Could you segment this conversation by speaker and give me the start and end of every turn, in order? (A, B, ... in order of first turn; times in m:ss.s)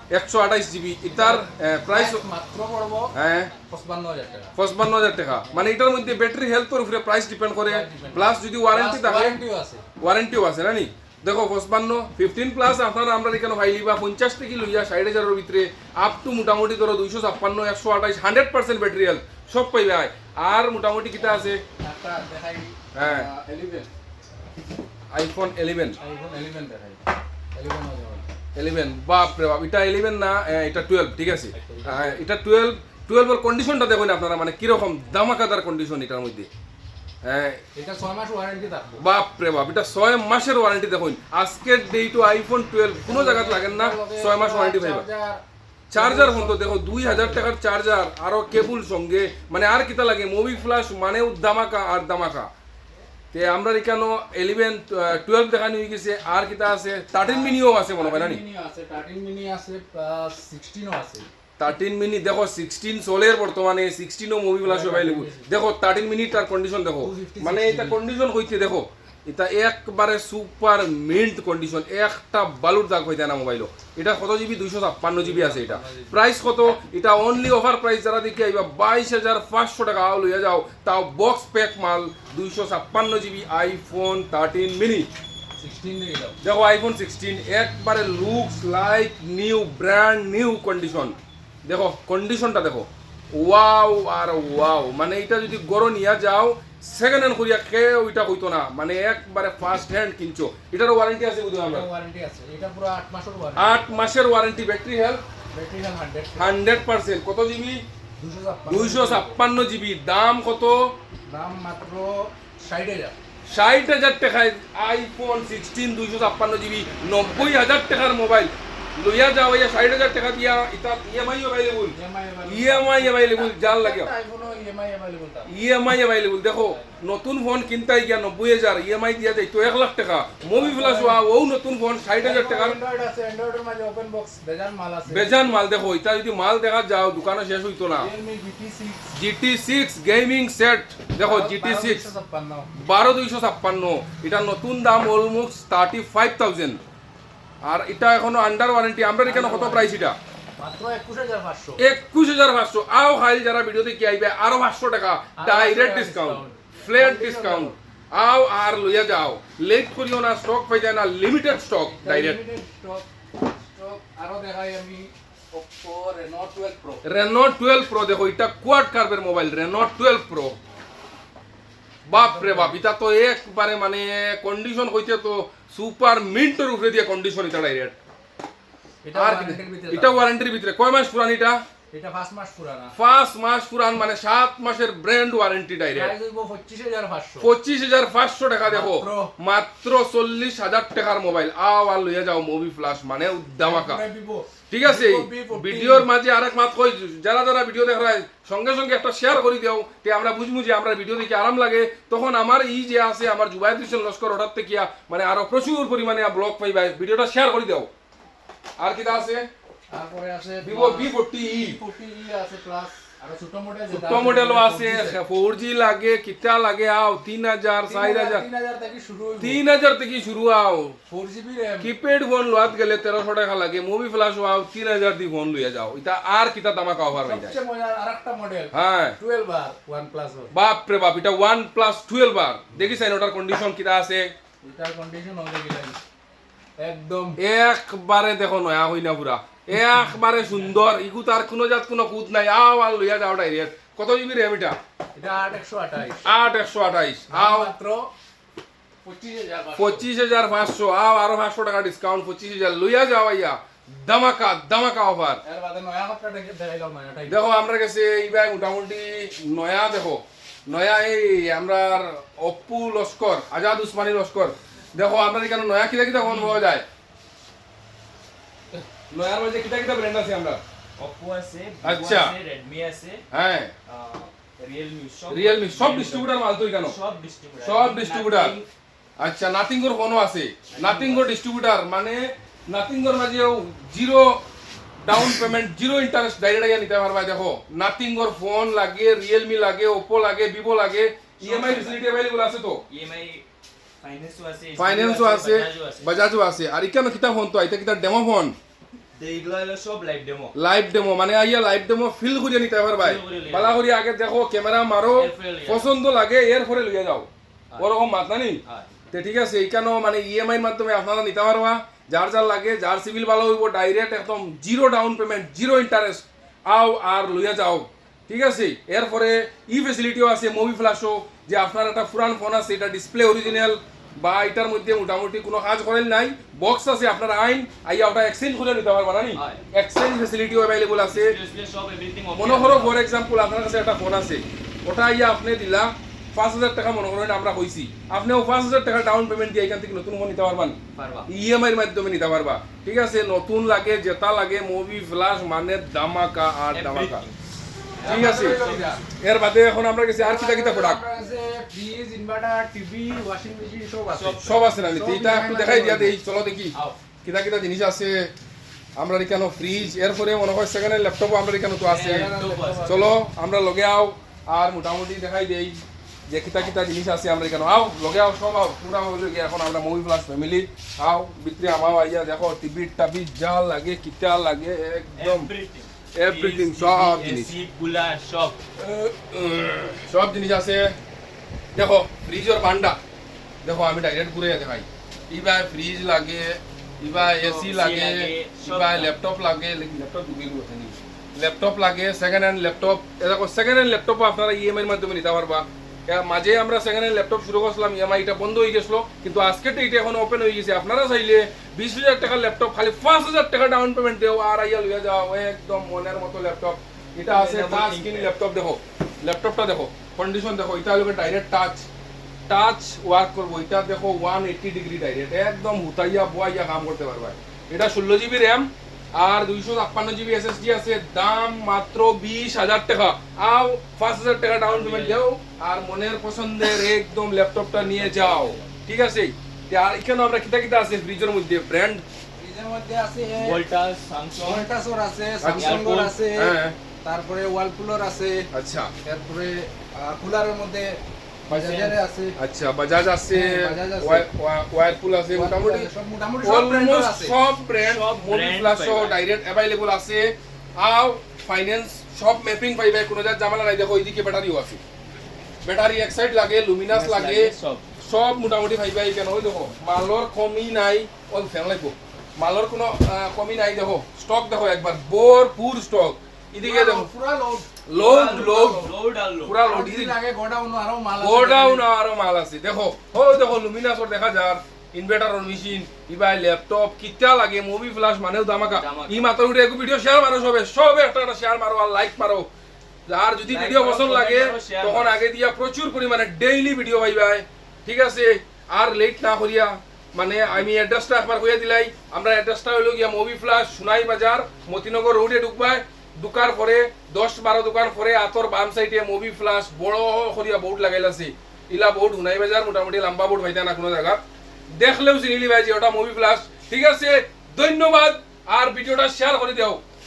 0:00.1-0:02.2 A
0:01.1-0:03.1 B
0:03.1-0:03.5 A
0:03.7-0:04.5 B
0:04.6-0:09.4 A
0:07.7-0:09.8 B
0:10.0-0:21.6 A
0:21.2-0:23.9 B
0:22.9-0:23.3 A
0:25.1-0:26.0 A
0:26.0-0:28.3 B
0:28.5-0:36.5 A
0:31.5-0:32.2 B
0:37.2-0:37.6 A
0:37.7-0:39.0 B
0:39.0-0:45.0 A
0:42.9-0:45.4 B
0:45.9-0:52.5 A
0:45.9-0:47.5 B
0:53.3-0:58.4 A
0:57.2-1:01.3 B
1:01.6-1:25.1 A
1:04.6-1:05.4 B
1:07.0-1:08.0 B
1:15.2-1:16.2 B
1:25.6-1:26.4 B
1:26.4-1:41.9 A
1:41.6-1:43.8 B
1:43.6-1:45.2 A
1:45.5-1:46.6 B
1:46.4-1:47.8 A
1:48.2-1:49.4 B
1:48.6-1:51.0 A
1:51.3-1:53.2 B
1:53.5-2:01.9 A
1:57.2-1:57.5 B
2:01.9-2:05.5 B
2:02.4-2:04.1 A
2:05.5-2:12.8 A
2:10.5-2:11.2 B
2:12.2-2:15.4 B
2:15.0-2:18.1 A
2:18.0-2:19.1 B
2:19.1-2:22.1 A
2:21.2-2:22.7 B
2:22.8-2:26.8 A
2:27.6-2:30.2 A
2:29.2-2:29.9 B
2:30.6-2:31.8 B
2:31.8-2:42.4 A
2:35.4-2:37.8 B
2:41.9-2:47.0 B
2:47.0-2:50.6 A
2:52.0-2:58.0 A
2:52.1-2:52.8 B
2:59.0-3:00.2 B
2:59.1-3:01.6 A
3:01.9-3:02.9 B
3:03.0-3:06.1 A
3:05.9-3:07.5 B
3:07.4-3:14.0 A
3:08.7-3:09.3 B
3:13.6-3:16.1 B
3:14.7-3:27.9 A
3:28.8-3:29.5 A
3:29.9-3:35.2 B
3:30.6-3:31.8 A
3:33.9-3:38.4 A
3:37.9-3:39.6 B
3:39.4-3:41.0 A
3:41.1-3:41.9 B
3:41.8-3:47.6 A
3:47.1-3:50.5 B
3:48.7-3:49.2 A
3:50.5-3:54.3 A
3:54.6-3:56.0 B
3:56.8-3:57.4 B
3:57.4-4:04.8 A
4:05.1-4:06.2 B
4:06.2-4:07.7 A
4:07.3-4:08.1 B
4:09.0-4:10.0 B
4:09.8-4:15.4 A
4:15.4-4:17.4 B
4:17.3-4:26.8 A
4:29.1-4:30.6 A
4:31.0-4:33.2 C
4:31.8-4:32.3 A
4:33.3-4:33.7 A
4:33.9-4:38.7 C
4:35.3-4:37.0 A
4:37.6-4:38.6 A
4:39.2-4:44.4 A
4:40.7-4:41.3 C
4:45.0-4:52.8 A
4:51.4-4:52.0 C
4:52.9-4:53.4 C
4:54.0-4:56.1 C
4:54.8-4:58.6 A
4:59.1-5:00.5 C
5:00.5-5:31.4 A
5:03.0-5:03.8 C
5:05.1-5:05.9 C
5:08.6-5:08.9 C
5:29.3-5:29.6 C
5:31.0-5:33.0 C
5:32.4-5:47.2 A
5:40.9-5:41.3 C
5:46.7-5:47.3 C
5:47.9-5:49.0 C
5:48.0-5:49.0 B
5:48.0-5:48.6 A
5:49.2-5:51.0 A
5:50.2-5:56.1 B
5:54.1-5:54.8 C
5:54.4-5:58.3 A
5:56.7-5:57.0 B
5:59.0-6:02.3 A
6:01.8-6:02.9 C
6:02.1-6:03.2 B
6:02.8-6:15.5 A
6:15.1-6:18.6 C
6:16.1-6:17.5 A
6:18.8-6:21.0 A
6:21.7-6:23.0 A
6:23.6-6:51.9 A
6:27.2-6:29.1 C
6:47.3-6:48.3 C
6:52.5-7:12.0 A
7:04.6-7:05.2 C
7:08.0-7:08.6 C
7:12.4-7:13.6 B
7:13.4-7:14.7 C
7:14.4-7:18.5 B
7:15.4-7:16.8 A
7:15.5-7:16.2 C
7:18.5-7:18.9 A
7:19.0-7:22.4 B
7:21.5-7:25.9 A
7:23.3-7:24.2 B
7:25.3-7:27.4 B
7:26.4-7:34.8 A
7:27.8-7:29.2 C
7:35.6-7:47.1 A
7:36.9-7:37.8 C
7:46.6-7:48.9 B
7:47.9-7:48.9 A
7:47.9-7:49.6 C
7:49.4-7:50.2 A
7:49.6-7:51.9 B
7:51.2-8:02.5 A
7:58.7-7:59.2 C
8:03.1-8:24.2 A
8:03.4-8:05.2 C
8:24.8-8:29.8 A